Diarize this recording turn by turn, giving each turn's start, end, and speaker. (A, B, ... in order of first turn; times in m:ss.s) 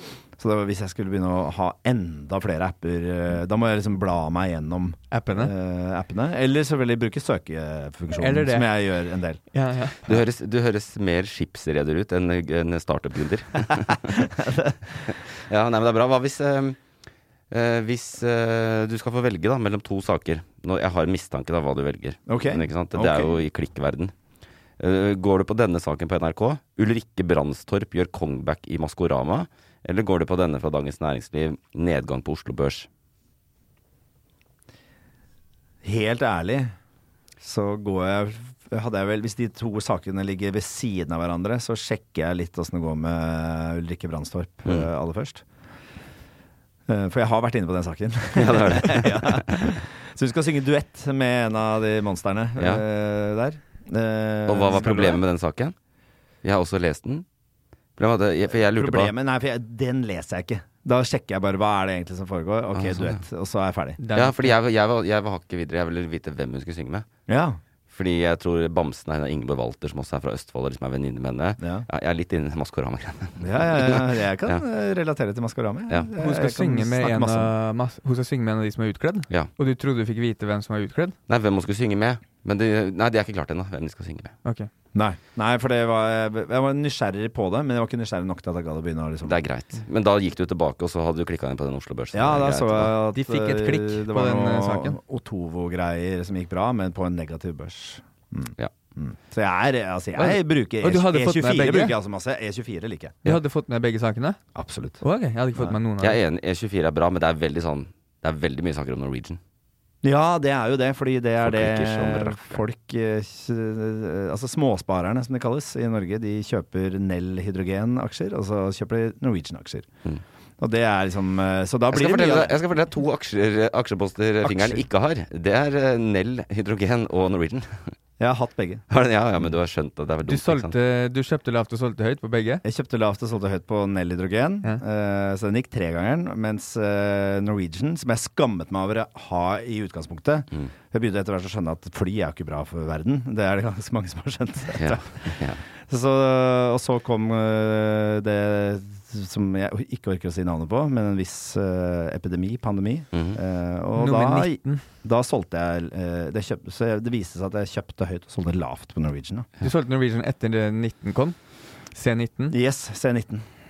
0:00.4-0:09.4 A
0:05.1-0:05.5 B
0:08.2-0:08.8 B
0:09.5-0:10.2 B
0:10.1-0:14.1 C
0:14.1-0:14.8 A
0:15.1-0:16.8 C
0:17.5-0:24.1 C
0:22.3-0:23.3 A
0:24.8-0:32.9 C
0:35.8-0:36.7 A
0:37.4-0:45.4 A
0:46.9-0:55.2 A
0:48.3-0:49.8 C
0:52.6-0:52.8 C
0:54.5-0:55.8 C
0:56.4-0:57.2 C
0:58.0-0:59.1 C
0:58.7-1:04.0 A
1:02.7-1:03.2 C
1:04.0-1:04.5 B
1:04.1-1:07.0 C
1:07.3-1:07.6 A
1:07.9-1:14.6 C
1:11.6-1:11.8 A
1:13.4-1:17.5 A
1:16.2-1:21.2 B
1:21.3-1:24.3 C
1:24.9-1:29.4 A
1:29.2-1:32.9 C
1:32.1-1:43.2 A
1:33.1-1:35.0 B
1:40.2-1:42.0 B
1:43.2-1:44.4 B
1:44.5-1:45.0 A
1:45.0-1:46.2 B
1:46.0-1:49.4 C
1:50.0-1:59.9 A
1:51.4-1:52.6 C
2:00.6-2:02.5 A
2:01.9-2:08.0 C
2:04.4-2:04.8 A
2:08.2-2:08.8 A
2:08.9-2:10.7 C
2:10.3-2:12.6 B
2:12.6-2:25.4 A
2:24.8-2:25.6 C
2:25.9-2:39.5 A
2:33.1-2:33.4 C
2:34.0-2:34.8 B
2:39.6-2:41.4 B
2:41.9-2:42.5 B
2:42.5-2:43.5 A